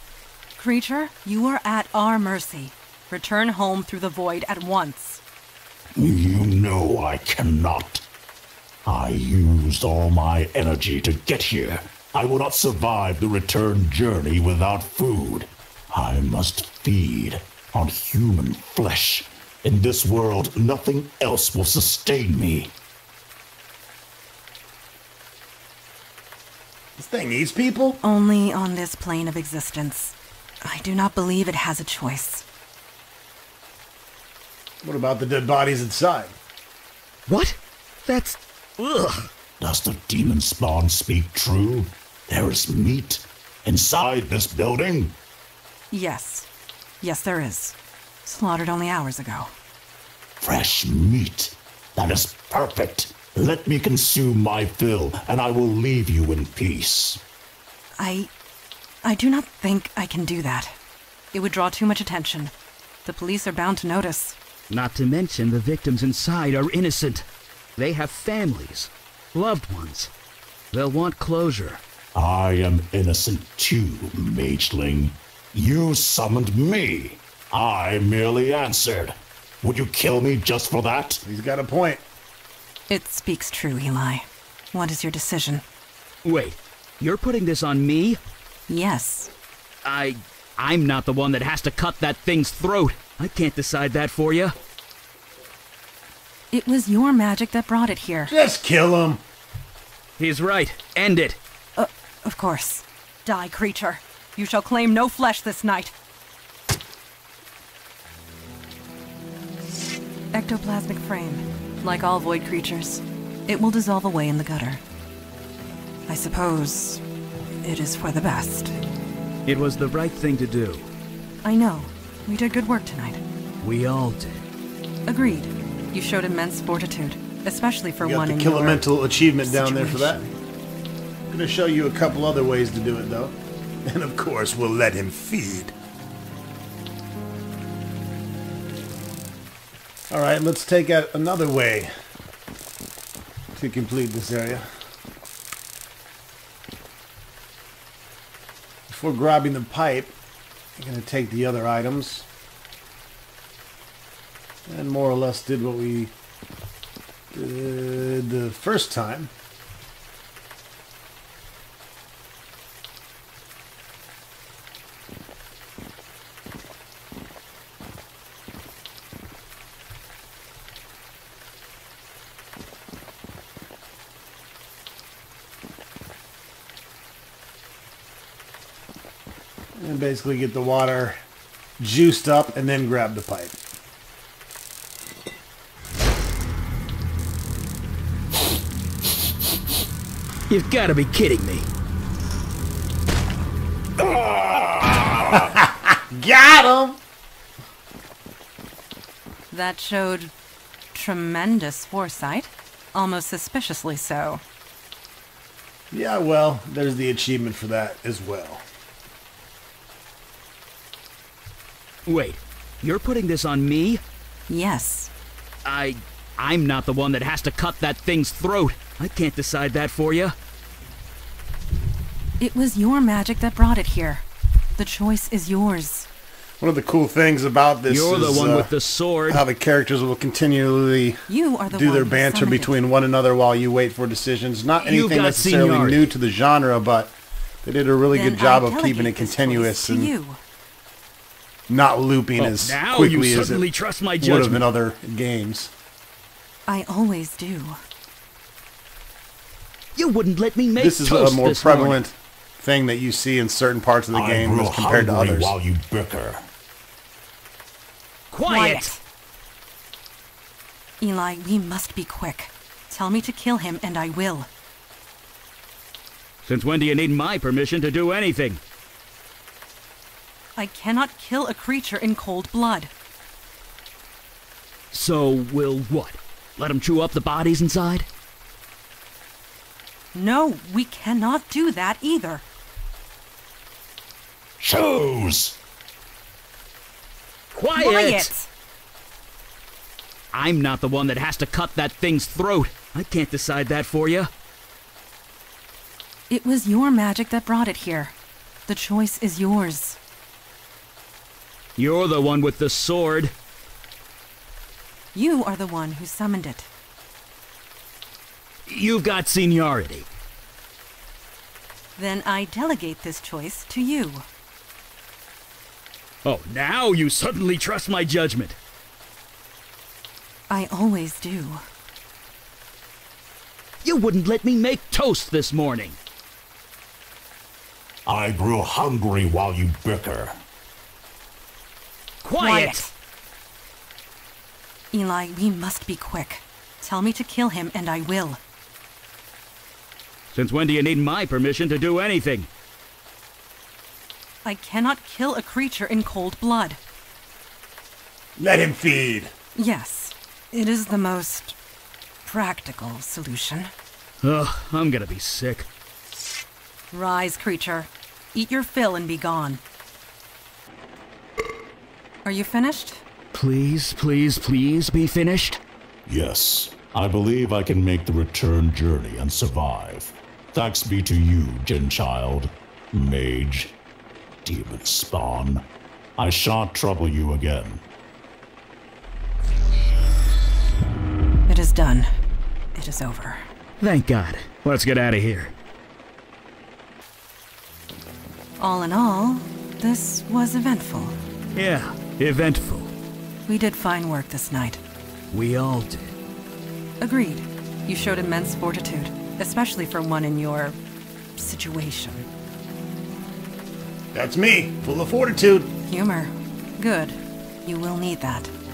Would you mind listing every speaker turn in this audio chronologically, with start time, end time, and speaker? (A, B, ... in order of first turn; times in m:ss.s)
0:00.6-0:05.2 A
0:06.0-0:08.0 B
0:08.8-0:22.7 B
0:27.0-0:28.0 C
0:28.0-0:32.4 A
0:34.8-0:36.4 C
0:37.3-0:39.3 D
0:39.6-0:45.2 B
0:45.9-0:46.5 A
0:47.0-0:49.5 A
0:50.4-0:57.2 B
0:58.0-0:58.3 A
0:59.0-1:00.8 A
1:01.3-1:02.5 A
1:03.0-1:04.4 A
1:04.7-1:07.2 D
1:07.8-1:10.1 D
1:10.7-1:11.8 D
1:12.1-1:21.2 B
1:21.2-1:22.0 C
1:22.9-1:25.6 A
1:26.2-1:28.2 D
1:28.7-1:29.3 A
1:29.8-1:34.5 D
1:36.5-1:38.3 A
1:38.3-1:39.2 C
1:40.2-1:41.4 D
1:41.8-1:45.9 A
1:50.3-1:54.8 A
1:56.1-1:57.0 A
1:57.6-1:58.8 A
1:59.4-2:00.9 D
2:01.4-2:03.2 A
2:03.6-2:04.4 D
2:05.1-2:10.3 A
2:08.0-2:10.3 C
2:11.3-2:15.7 C
2:20.1-2:21.9 C
2:23.5-2:24.7 C
2:28.9-2:30.1 C
2:30.8-2:32.3 C
2:34.7-2:36.1 C
2:37.3-2:39.3 C
2:59.8-3:01.2 C
3:01.8-3:03.6 C
3:10.5-3:11.7 D
3:14.0-3:15.4 B
3:15.4-3:17.0 C
3:19.5-3:20.3 A
3:20.9-3:24.4 A
3:25.9-3:28.6 C
3:32.0-3:34.0 D
3:34.5-3:35.1 A
3:35.6-3:40.3 D
3:42.4-3:44.2 A
3:44.8-3:46.1 A
3:46.6-3:48.7 C
3:47.9-3:49.4 D
3:49.3-4:00.1 C
3:51.3-3:52.8 A
3:54.8-3:56.1 D
3:58.1-4:00.4 A
4:01.7-4:03.6 C
4:02.4-4:04.6 D
4:04.2-4:05.7 C
4:06.7-4:07.8 A
4:09.9-4:12.0 D
4:10.8-4:15.5 C
4:14.1-4:16.5 B
4:18.3-4:18.9 D
4:18.4-4:19.0 A
4:21.0-4:24.5 A
4:26.4-4:28.6 D
4:30.6-4:32.9 A
4:34.9-4:38.1 D
4:40.1-4:42.4 A
4:44.6-4:45.6 B
4:47.5-4:48.3 D
4:47.8-4:48.5 A
4:50.3-4:54.3 D
4:56.3-4:58.1 A
4:58.7-5:00.0 A
5:01.8-5:03.3 D
5:05.1-5:06.7 A
5:08.7-5:10.1 D
5:12.0-5:14.2 A
5:16.2-5:18.6 D
5:20.5-5:21.6 A
5:23.8-5:26.0 D
5:28.0-5:30.4 B
5:32.2-5:32.8 D
5:32.4-5:32.9 A
5:34.9-5:38.4 A
5:40.3-5:42.5 D
5:44.4-5:46.8 A
5:48.4-5:49.3 C
5:49.5-5:51.6 A
5:52.2-5:53.7 A
5:54.2-5:55.7 D
5:56.9-5:59.6 A
6:02.2-6:03.0 A
6:03.3-6:05.6 D
6:06.0-6:13.8 B
6:14.4-6:15.6 B
6:16.2-6:17.8 B
6:21.5-6:22.1 A
6:22.7-6:23.4 A
6:23.8-6:25.5 D
6:28.6-6:31.2 A
6:31.6-6:32.9 D
6:33.5-6:34.8 A
6:35.3-6:36.1 D
6:37.0-6:40.8 A
6:41.4-6:42.3 A
6:44.1-6:45.7 C
6:45.9-6:48.5 A